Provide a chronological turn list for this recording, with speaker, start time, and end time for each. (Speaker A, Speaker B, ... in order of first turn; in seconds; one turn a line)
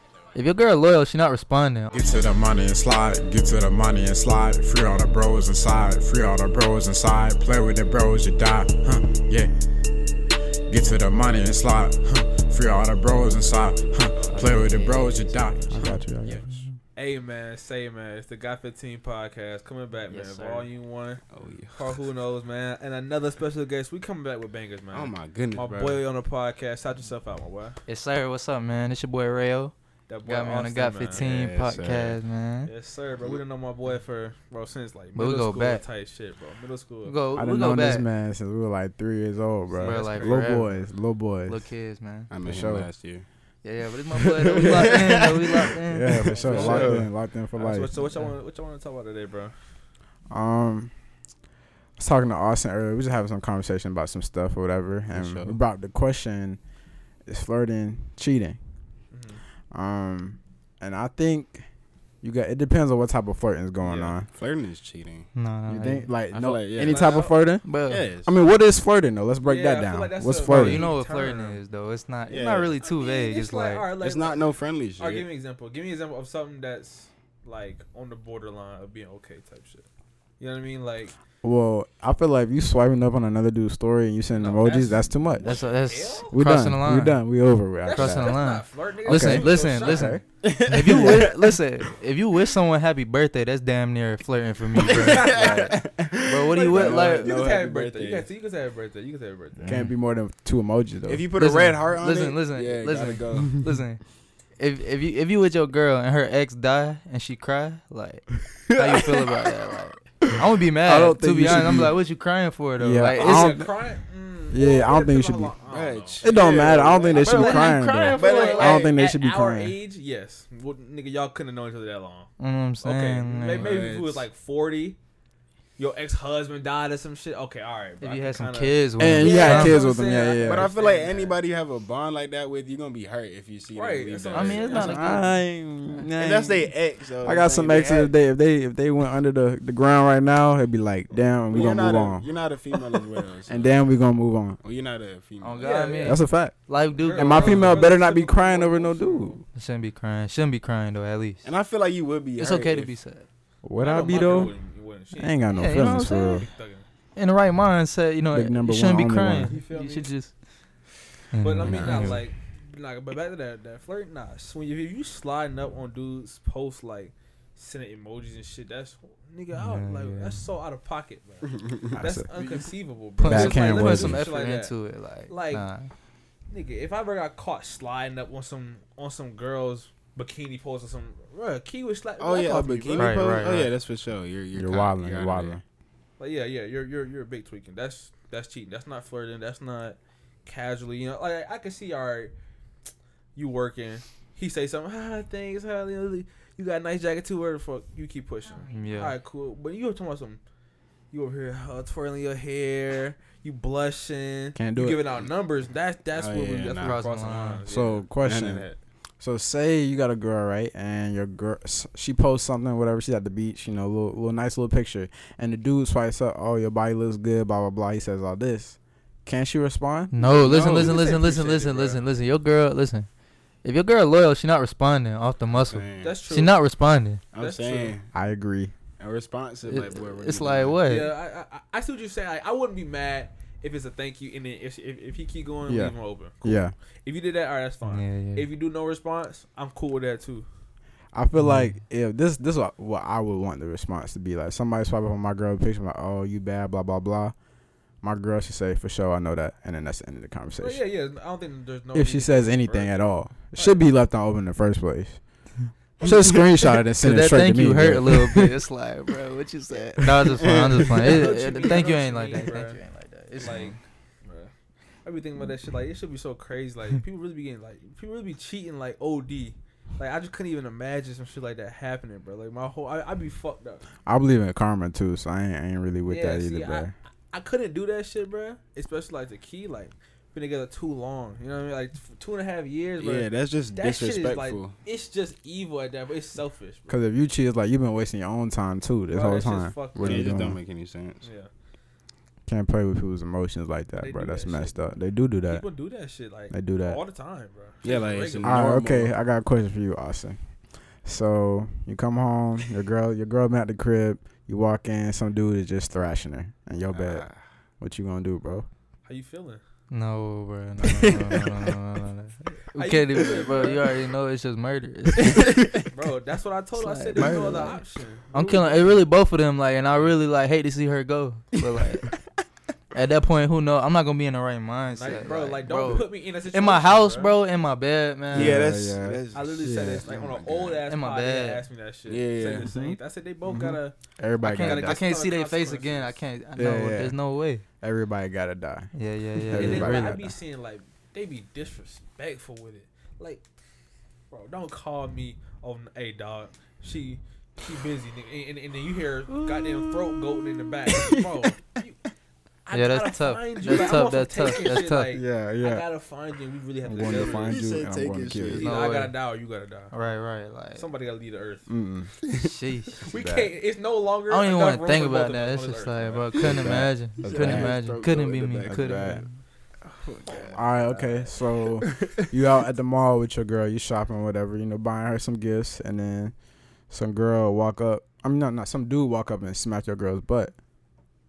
Speaker A: 0.3-1.9
Speaker B: 1.9-9.5
Speaker B: 10.7-15.8
Speaker A: 14.2-16.7
Speaker C: 15.7-16.6
Speaker D: 16.9-27.8
Speaker A: 20.1-20.7
Speaker E: 21.3-22.0
Speaker E: 24.9-26.0
Speaker A: 27.9-32.7
Speaker D: 30.1-31.3
Speaker E: 31.1-32.2
Speaker D: 32.6-37.2
Speaker A: 35.1-35.9
Speaker A: 37.0-38.1
Speaker C: 37.4-41.6
Speaker D: 39.7-40.6
Speaker A: 39.8-42.3
Speaker E: 42.3-43.6
Speaker C: 42.4-42.9
Speaker A: 43.6-46.8
Speaker E: 44.2-45.7
Speaker C: 45.9-47.9
Speaker D: 46.3-49.8
Speaker E: 46.4-47.1
Speaker A: 48.0-48.4
Speaker C: 50.3-51.1
Speaker C: 52.0-56.6
Speaker E: 55.1-55.6
Speaker C: 57.2-58.6
Speaker D: 59.1-59.4
Speaker C: 59.7-61.7
Speaker C: 62.2-64.3
Speaker D: 63.8-64.1
Speaker E: 64.3-65.3
Speaker A: 65.3-66.1
Speaker C: 65.7-70.9
Speaker E: 66.3-67.3
Speaker D: 66.8-67.4
Speaker A: 67.6-68.0
Speaker E: 67.9-68.3
Speaker D: 69.4-71.6
Speaker A: 70.5-73.9
Speaker E: 72.3-72.8
Speaker D: 72.8-81.2
Speaker E: 74.0-75.3
Speaker C: 81.4-85.7
Speaker D: 84.3-86.4
Speaker A: 85.4-97.3
Speaker C: 86.3-88.4
Speaker D: 87.8-90.2
Speaker C: 89.1-90.2
Speaker E: 90.4-91.6
Speaker C: 90.8-91.2
Speaker E: 94.8-98.3
Speaker D: 94.9-95.8
Speaker D: 96.5-99.9
Speaker A: 99.7-99.9
Speaker C: 99.7-101.3
Speaker E: 101.1-103.5
Speaker A: 101.4-113.7
Speaker C: 110.8-112.0
Speaker C: 112.8-113.9
Speaker D: 113.2-125.0
Speaker C: 114.5-115.5
Speaker E: 115.7-117.2
Speaker C: 116.2-119.8
Speaker A: 117.1-118.8
Speaker E: 118.2-118.8
Speaker A: 122.4-123.8
Speaker E: 123.5-124.3
Speaker D: 125.8-131.4
Speaker A: 128.0-129.8
Speaker C: 129.0-130.7
Speaker E: 130.4-134.8
Speaker D: 133.7-135.3
Speaker A: 134.3-135.3
Speaker C: 134.7-142.3
Speaker E: 136.2-138.1
Speaker E: 141.5-143.9
Speaker C: 143.5-144.6
Speaker E: 144.6-145.9
Speaker A: 145.4-147.9
Speaker D: 145.6-146.4
Speaker C: 146.0-149.4
Speaker D: 147.0-149.4
Speaker A: 149.5-151.5
Speaker E: 151.4-152.9
Speaker A: 152.4-153.3
Speaker C: 153.6-154.6
Speaker D: 153.8-156.8
Speaker C: 155.1-156.5
Speaker A: 155.5-156.4
Speaker A: 157.2-160.5
Speaker C: 158.3-159.6
Speaker D: 159.4-160.1
Speaker A: 161.3-162.2
Speaker D: 161.4-175.7
Speaker E: 161.6-162.2
Speaker A: 169.5-170.5
Speaker E: 171.6-171.9
Speaker C: 172.0-174.3
Speaker A: 173.2-175.9
Speaker D: 176.5-183.7
Speaker E: 182.2-185.6
Speaker A: 183.0-183.7
Speaker C: 184.5-185.6
Speaker D: 186.2-192.3
Speaker D: 193.3-200.4
Speaker A: 198.7-199.2
Speaker D: 201.1-208.1
Speaker C: 204.6-205.0
Speaker E: 206.1-207.0
Speaker A: 206.8-207.6
Speaker C: 207.7-220.1
Speaker E: 208.2-208.8
Speaker A: 220.1-223.1
Speaker D: 220.2-222.0
Speaker A: 223.6-227.2
Speaker E: 225.5-226.2
Speaker D: 226.0-226.6
Speaker E: 227.3-228.1
Speaker D: 227.4-227.9
Speaker C: 228.1-228.7
Speaker E: 229.0-230.8
Speaker A: 229.7-231.1
Speaker D: 230.9-240.5
Speaker C: 235.7-236.8
Speaker A: 237.9-238.5
Speaker C: 241.1-250.8
Speaker A: 241.4-241.8
Speaker D: 250.6-253.9
Speaker C: 251.9-258.6
Speaker D: 256.0-256.5
Speaker A: 257.0-263.8
Speaker E: 260.4-261.1
Speaker D: 261.0-264.5
Speaker E: 263.4-263.8
Speaker D: 265.0-273.9
Speaker C: 274.1-276.9
Speaker D: 276.1-287.0
Speaker E: 283.0-284.8
Speaker C: 286.9-290.6
Speaker D: 289.1-290.4
Speaker E: 290.0-291.3
Speaker D: 291.2-291.5
Speaker C: 292.5-295.9
Speaker D: 294.0-298.6
Speaker C: 296.5-297.0
Speaker E: 297.8-299.1
Speaker C: 298.4-308.7
Speaker E: 306.9-307.6
Speaker D: 309.1-309.6
Speaker A: 309.9-315.8
Speaker E: 311.0-311.3
Speaker D: 312.8-313.9
Speaker D: 315.3-319.0
Speaker A: 316.7-322.4
Speaker C: 317.2-317.7
Speaker A: 322.9-328.8
Speaker D: 324.9-327.3
Speaker E: 328.3-330.8
Speaker C: 328.3-330.1
Speaker D: 329.3-336.2
Speaker A: 330.9-331.6
Speaker E: 332.1-332.7
Speaker C: 332.6-335.0
Speaker A: 334.4-337.6
Speaker C: 336.6-337.2
Speaker C: 337.8-340.3
Speaker A: 338.9-340.2
Speaker D: 339.6-343.5
Speaker D: 344.3-352.0
Speaker D: 352.7-357.7
Speaker A: 352.7-355.2
Speaker C: 355.1-355.9
Speaker C: 356.9-358.6
Speaker E: 357.4-358.8
Speaker D: 358.6-359.9
Speaker A: 358.6-359.2
Speaker A: 359.9-360.9
Speaker D: 360.8-361.7
Speaker C: 361.7-362.3
Speaker A: 362.4-363.1
Speaker D: 363.1-366.4
Speaker C: 363.1-363.5
Speaker A: 364.3-369.4
Speaker C: 366.4-367.8
Speaker E: 367.2-369.3
Speaker C: 368.7-369.2
Speaker D: 369.9-371.4
Speaker E: 370.0-370.7
Speaker C: 370.5-380.5